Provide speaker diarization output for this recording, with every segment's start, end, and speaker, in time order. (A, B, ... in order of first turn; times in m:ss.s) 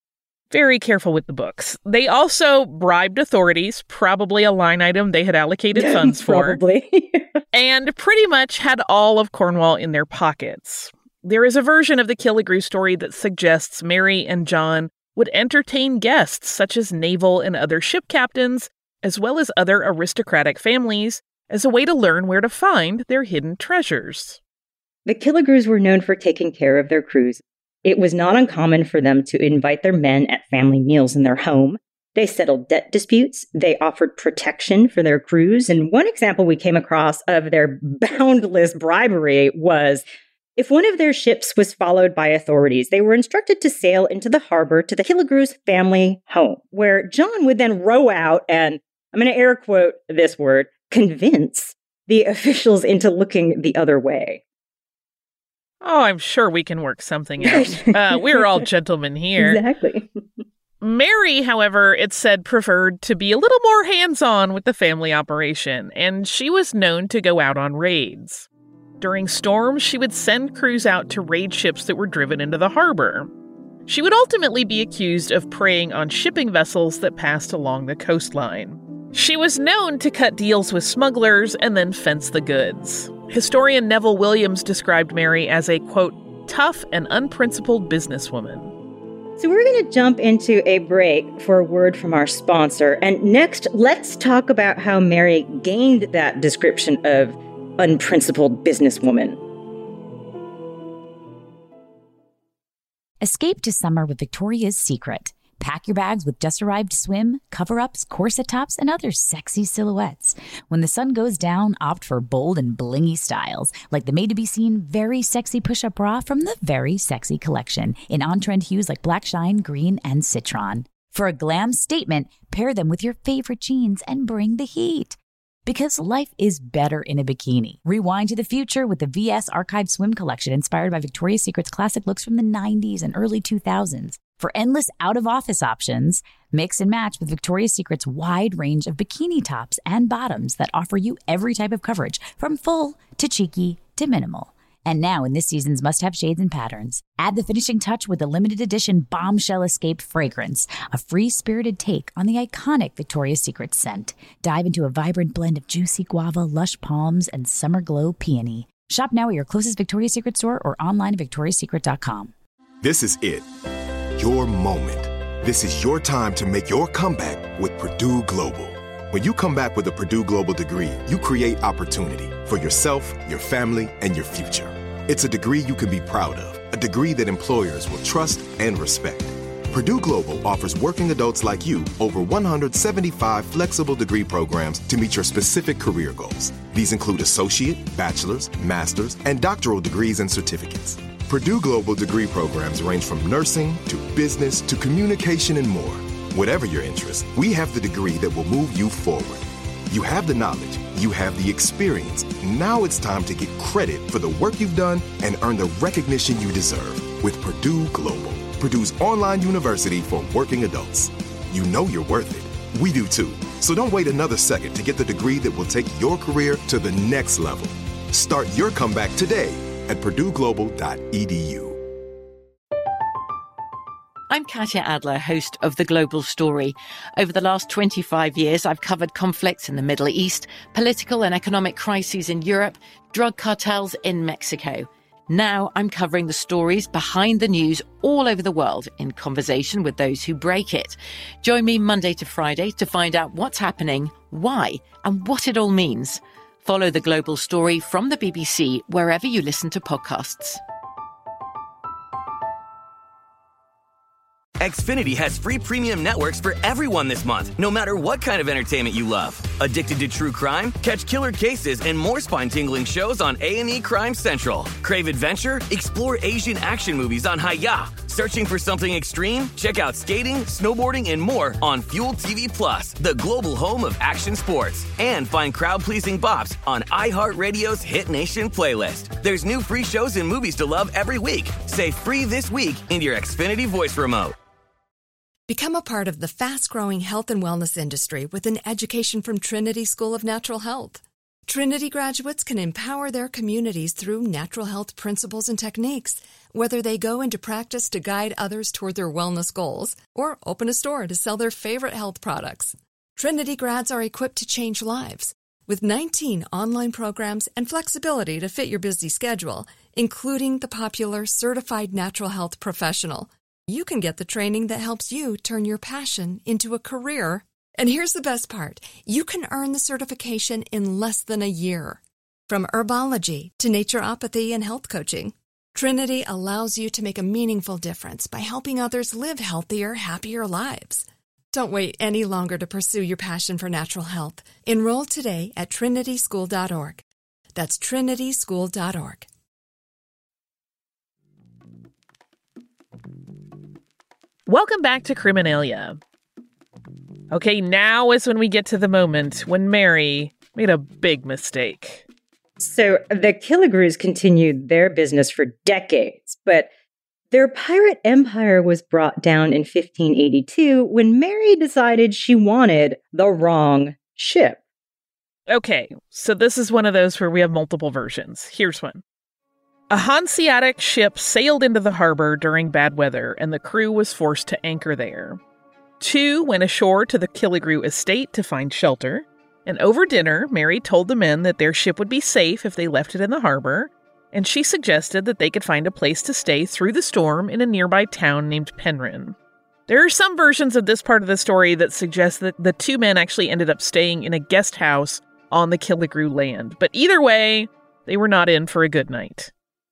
0:00.5-0:06.6 A
0:05.8-0:07.4 B
0:07.5-0:24.4 A
0:25.0-0:40.0 B
0:40.6-0:54.4 B
0:55.8-0:59.6 A
0:57.4-0:58.4 B
0:59.4-1:00.0 B
1:00.8-1:08.5 A
1:09.0-1:13.3 A
1:13.9-1:28.7 A
1:29.4-1:39.4 B
1:43.2-2:42.3 C
2:42.8-2:43.5 D
2:44.2-3:41.8 D
3:44.3-4:10.6 E
4:14.6-4:44.3 F
4:45.5-5:37.0 G
5:37.5-5:39.3 G
5:44.5-5:46.0 A
5:47.3-5:52.0 A
5:52.6-5:56.7 B
5:57.3-6:04.6 B
6:05.5-6:09.0 A
6:09.9-6:15.4 A
6:16.0-6:29.4 A
6:29.9-6:39.5 A